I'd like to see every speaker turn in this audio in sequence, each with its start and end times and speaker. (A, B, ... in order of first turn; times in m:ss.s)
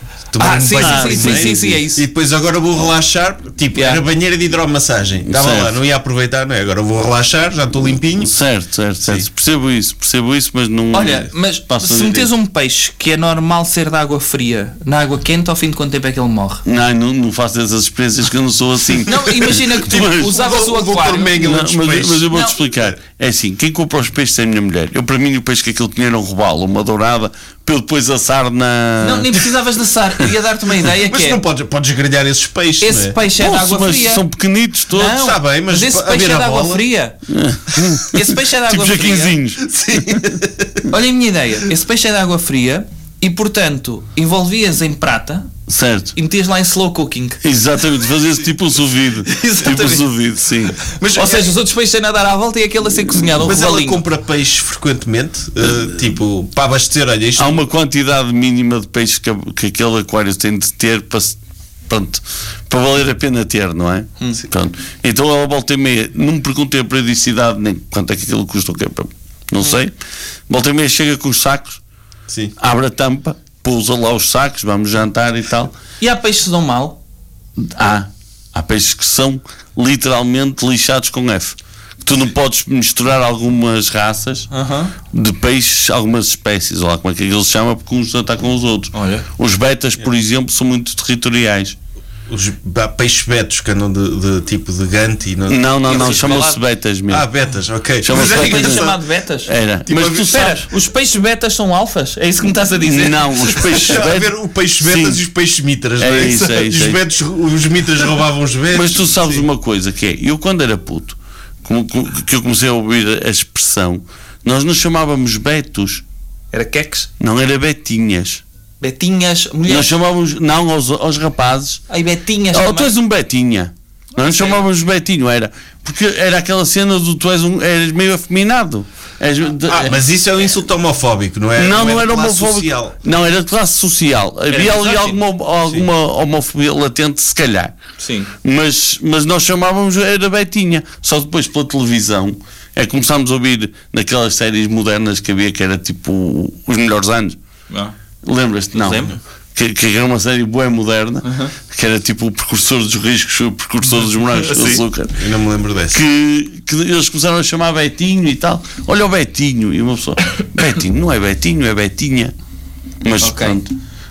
0:00.3-0:08.3 A
0:00.4-0:02.0 B
0:00.8-0:01.8 C
0:03.7-0:04.0 B
0:05.3-0:05.7 C
0:08.2-0:12.3 C
0:10.9-0:16.6 B
0:16.6-0:20.3 C
0:19.0-0:21.4 B
0:19.8-0:22.3 A
0:21.4-0:29.4 C
0:22.3-0:22.6 B
0:29.0-0:31.4 B
0:31.0-0:33.2 A
0:32.8-0:34.2 B
0:33.4-0:35.2 C
0:34.9-0:37.2 B
0:35.0-0:36.9 A
0:37.3-0:40.3 C
0:38.1-0:39.4 B
0:39.6-0:40.8 A
0:40.9-0:45.5 B
0:45.7-0:46.1 C
0:46.1-0:47.4 B
0:47.4-0:50.8 C
0:49.2-0:50.1 B
0:50.8-0:51.5 A
0:51.1-0:54.0 B
0:53.4-0:57.6 A
0:57.4-1:01.4 C
1:01.9-1:09.9 C
1:10.5-1:11.8 C
1:12.3-1:12.5 A
1:12.6-1:15.7 C
1:16.0-1:17.0 B
1:17.6-1:24.5 C
1:24.5-1:24.9 B
1:25.1-1:31.8 C
1:28.9-1:29.3 B
1:32.3-1:36.4 A
1:35.5-1:37.3 C
1:35.8-1:36.6 B
1:37.1-1:39.0 A
1:38.0-1:38.9 C
1:38.1-1:39.5 B
1:39.4-1:40.6 C
1:39.8-1:40.4 A
1:40.1-1:44.0 B
1:42.8-1:45.2 C
1:43.7-1:49.5 A
1:46.0-1:47.0 C
1:48.7-1:56.0 C
1:56.5-1:57.1 B
1:57.2-1:58.4 C
1:58.8-1:59.9 B
1:59.7-2:01.8 C
2:01.9-2:02.9 B
2:02.5-2:10.0 C
2:04.2-2:04.6 B
2:09.6-2:13.0 A
2:11.6-2:17.7 C
2:14.5-2:15.2 B
2:18.0-2:18.3 B
2:18.4-2:27.4 C
2:28.2-2:35.2 C
2:28.7-2:29.1 B
2:31.2-2:31.5 B
2:34.3-2:34.8 B
2:35.2-2:36.0 A
2:35.9-2:42.3 C
2:43.0-2:43.7 C
2:43.2-2:43.6 B